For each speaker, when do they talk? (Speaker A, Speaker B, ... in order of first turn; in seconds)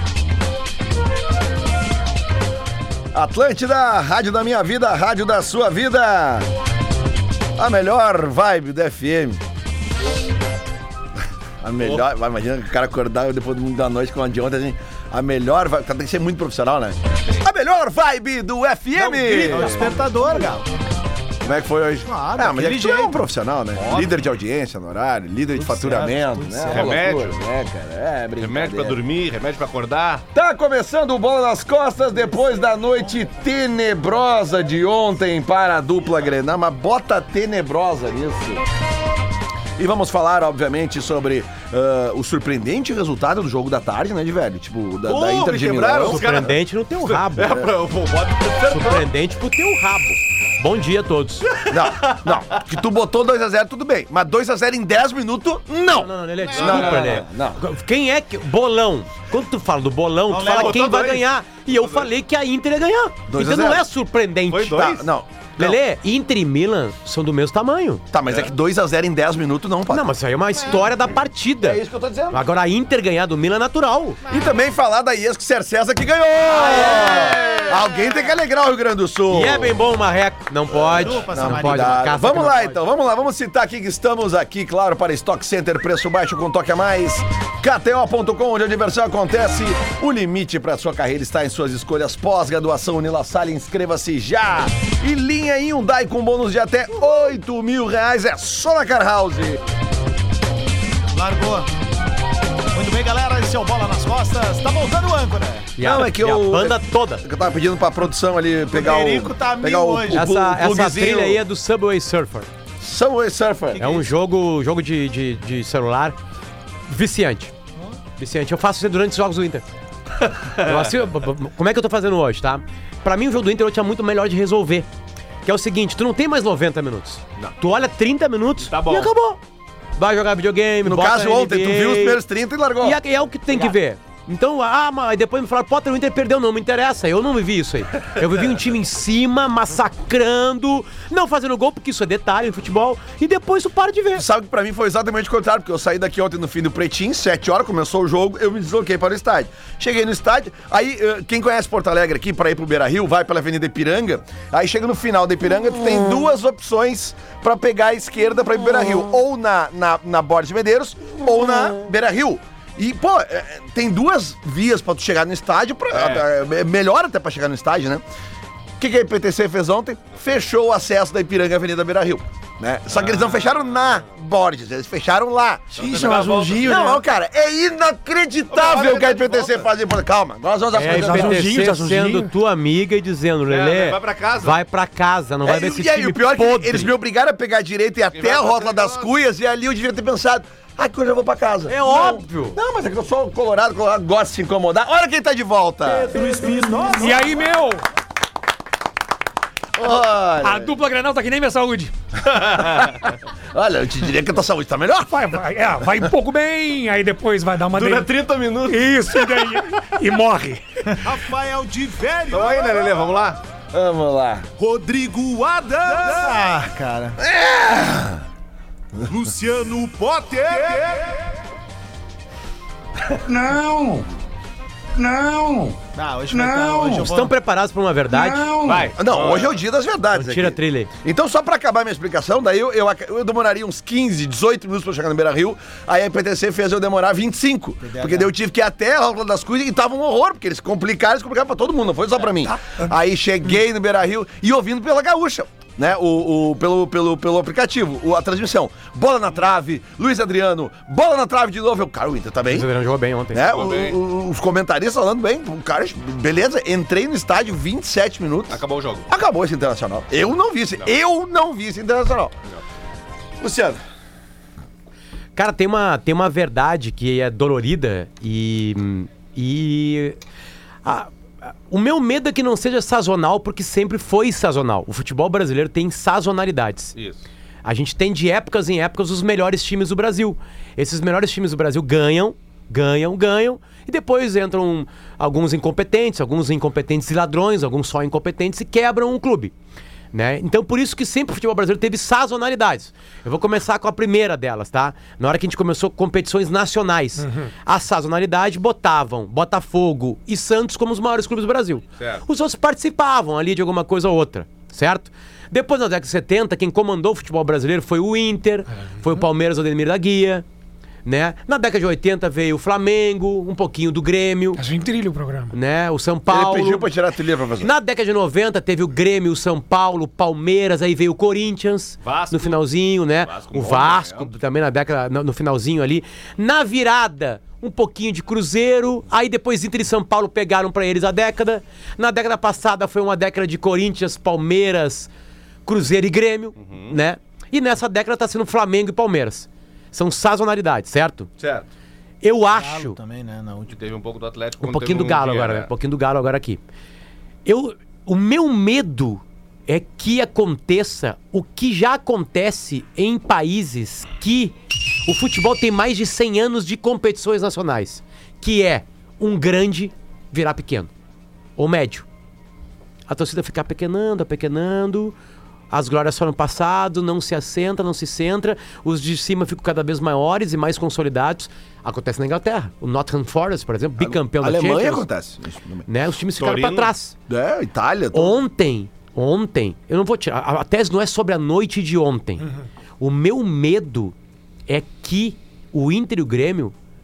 Speaker A: 3.1-6.5, 7.5-9.4, 11.6-19.9, 21.4-29.0, 30.3-38.6, 39.8-46.2, 51.7-57.6, 63.3-63.8, 64.7-65.8, 68.1-70.1, 71.6-72.4, 74.3-79.8, 80.7-99.6, 105.8-111.4, 112.8-113.9, 130.8-133.0, 144.1-168.0, 168.8-181.7, 185.4-196.1, 199.8-200.8, 202.3-205.3, 213.7-214.5, 217.2-218.2, 228.9-252.7, 253.3-262.4, 263.4-263.8, 316.3-317.7, 374.0-375.9, 377.3-378.4
Speaker B: 18.9-19.9, 23.8-24.2, 26.7-27.4, 28.4-30.2, 45.0-49.1, 56.5-57.1, 60.4-62.1, 64.5-65.0, 76.6-77.7, 128.7-129.1, 165.9-166.2, 172.9-173.9, 175.7-177.0, 178.5-179.7, 183.5-184.6, 188.1-189.1, 202.3-203.0, 207.7-209.0, 212.3-213.4, 228.6-229.6, 253.4-254.0, 258.5-259.1, 276.9-277.2, 322.0-322.6, 323.2-324.3, 336.6-336.9, 341.4-341.7, 343.7-345.7, 376.3-376.9
Speaker C: 19.4-20.7, 22.1-23.2, 25.6-27.0, 32.4-33.2, 60.3-61.0, 74.2-74.5, 76.9-78.1, 80.9-82.6, 101.1-101.7, 102.7-105.7, 108.7-110.3, 113.7-114.1, 195.8-197.4, 210.9-212.9, 214.6-217.2, 219.1-221.2, 225.9-227.3, 237.8-238.3, 342.5-343.8
Speaker D: 46.0-47.6, 48.6-51.5, 55.9-65.0, 65.6-68.0, 69.9-74.2, 76.6-77.3, 79.3-82.7, 105.8-107.2, 110.1-112.5, 113.8-116.2, 116.9-117.5, 118.2-119.6, 120.5-124.9, 125.4-129.4, 130.0-132.2, 132.8-144.2, 180.7-186.9, 191.7-192.6, 227.0-228.8, 230.1-230.9, 252.5-253.6, 265.4-270.2, 270.8-271.1, 271.7-276.9, 277.6-289.5, 290.1-310.4, 311.0-314.6, 315.5-316.9, 317.6-335.1, 335.6-341.3, 342.2-342.9, 344.6-346.6, 347.4-354.5, 355.0-360.9, 361.6-362.1, 363.1-365.1, 365.7-375.1, 375.9-377.1, 378.1-382.5, 383.0-384.1, 384.7-386.7
Speaker E: 176.1-176.7, 180.8-182.3, 196.9-197.8, 200.4-201.9, 205.1-208.1, 208.7-210.6, 242.4-242.9, 314.6-315.5
Speaker F: 223.2-224.1, 224.9-225.8, 226.3-227.1, 228.1-228.9